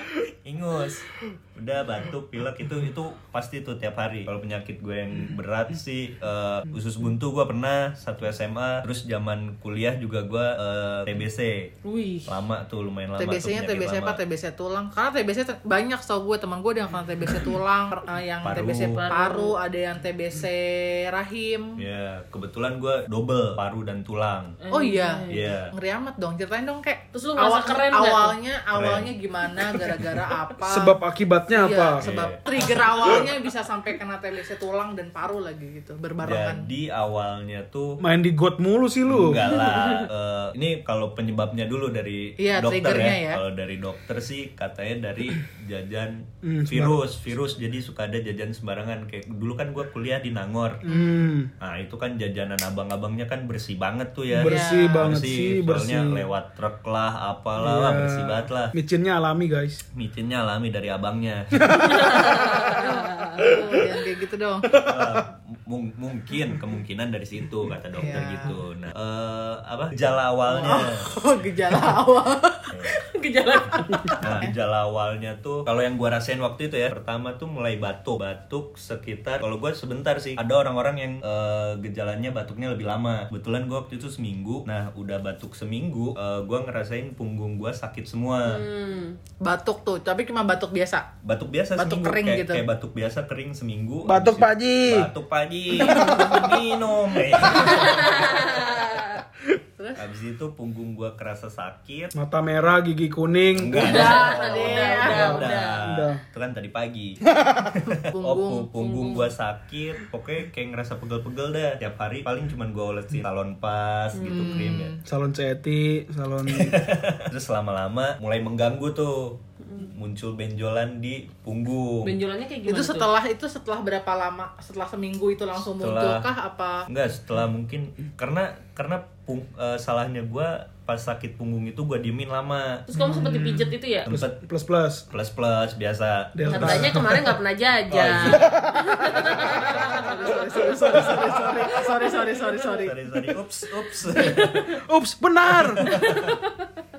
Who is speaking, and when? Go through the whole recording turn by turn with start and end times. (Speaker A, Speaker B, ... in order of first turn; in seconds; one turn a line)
Speaker A: 0.4-11.7
Speaker B: 11.8-12.4
Speaker A: 12.3-14.2
Speaker C: 13.2-21.8
Speaker A: 18.4-19.0
Speaker B: 18.9-19.5
Speaker A: 21.8-24.6
Speaker B: 24.6-25.5
Speaker C: 24.7-36.7
Speaker A: 25.3-25.7
Speaker B: 27.1-28.4
Speaker A: 28.7-29.1
Speaker D: 30.7-32.1
Speaker A: 32.0-33.2
Speaker A: 36.2-38.0
Speaker D: 38.0-39.4
Speaker A: 39.1-50.8
Speaker B: 39.6-40.1
Speaker C: 42.4-43.4
Speaker D: 46.4-47.0
Speaker D: 50.8-51.5
Speaker A: 51.6-58.7
Speaker D: 54.3-56.3
Speaker C: 54.4-55.1
Speaker D: 57.6-59.8
Speaker A: 59.9-62.1
Speaker D: 61.6-62.5
Speaker B: 62.1-63.5
Speaker C: 62.2-64.7
Speaker D: 64.8-65.1
Speaker A: 64.8-71.1
Speaker C: 68.0-68.6
Speaker C: 70.5-72.7
Speaker A: 72.7-73.0
Speaker B: 72.9-74.5
Speaker A: 74.2-88.6
Speaker B: 88.5-89.2
Speaker C: 89.4-91.1
Speaker A: 91.2-98.4
Speaker C: 91.8-92.6
Speaker D: 94.0-95.1
Speaker D: 95.8-96.5
Speaker C: 95.8-96.2
Speaker B: 97.5-99.2
Speaker A: 100.0-102.1
Speaker D: 102.1-104.0
Speaker A: 103.5-107.2
Speaker B: 103.8-105.8
Speaker C: 103.8-105.5
Speaker D: 105.8-106.2
Speaker D: 107.3-107.7
Speaker A: 107.9-114.9
Speaker C: 107.9-109.2
Speaker B: 108.8-109.3
Speaker B: 114.2-114.5
Speaker C: 114.3-115.0
Speaker D: 115.1-116.8
Speaker A: 116.5-122.1
Speaker B: 119.6-119.9
Speaker B: 122.0-123.1
Speaker C: 122.7-126.8
Speaker A: 125.8-126.3
Speaker A: 126.9-132.9
Speaker B: 132.9-134.1
Speaker D: 133.0-135.1
Speaker A: 134.1-134.4
Speaker A: 135.1-136.9
Speaker D: 136.3-137.0
Speaker B: 136.5-141.1
Speaker A: 137.9-138.5
Speaker D: 138.4-138.9
Speaker A: 139.0-140.3
Speaker C: 139.7-142.9
Speaker D: 140.9-141.2
Speaker B: 141.9-142.6
Speaker A: 142.8-144.8
Speaker B: 144.2-144.6
Speaker D: 144.9-146.0
Speaker A: 145.5-146.3
Speaker B: 145.8-146.8